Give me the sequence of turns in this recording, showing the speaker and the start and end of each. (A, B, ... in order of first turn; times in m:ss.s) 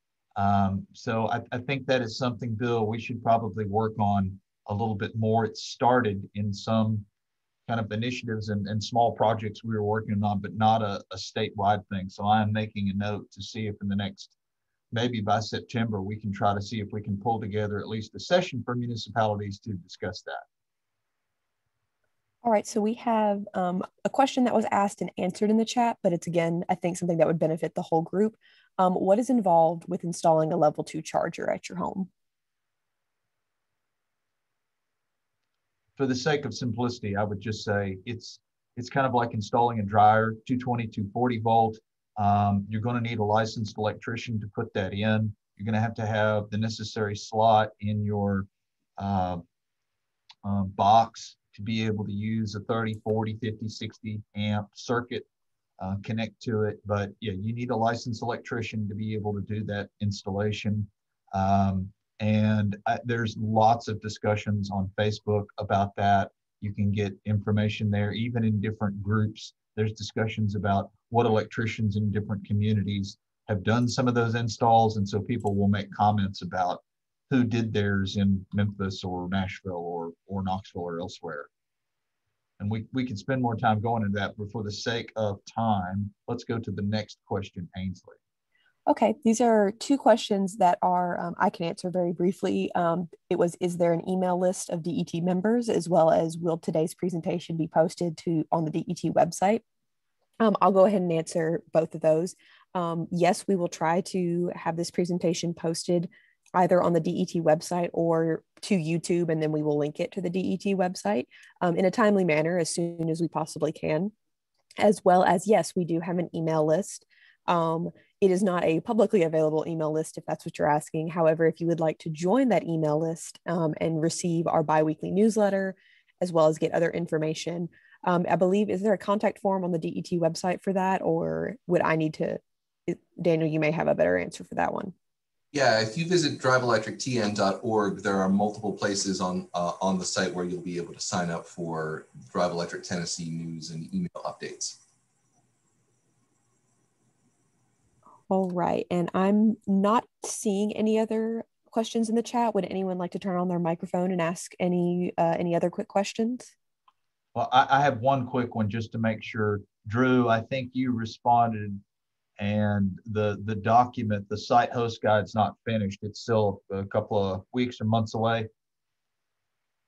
0:00.4-0:07.1 A
0:07.7-0:14.3 A
0:14.9-0:20.4 A
0:22.4-0:32.1 B
0:36.0-0:49.4 A
0:50.4-0:55.2 A
0:55.8-1:21.5 A
1:22.6-1:28.2 A
1:28.9-1:39.6 B
1:40.4-1:54.1 B
1:54.8-2:14.9 B
2:15.5-2:24.8 C
2:28.3-2:36.5 B
2:37.4-2:41.8 A
2:42.4-2:48.5 A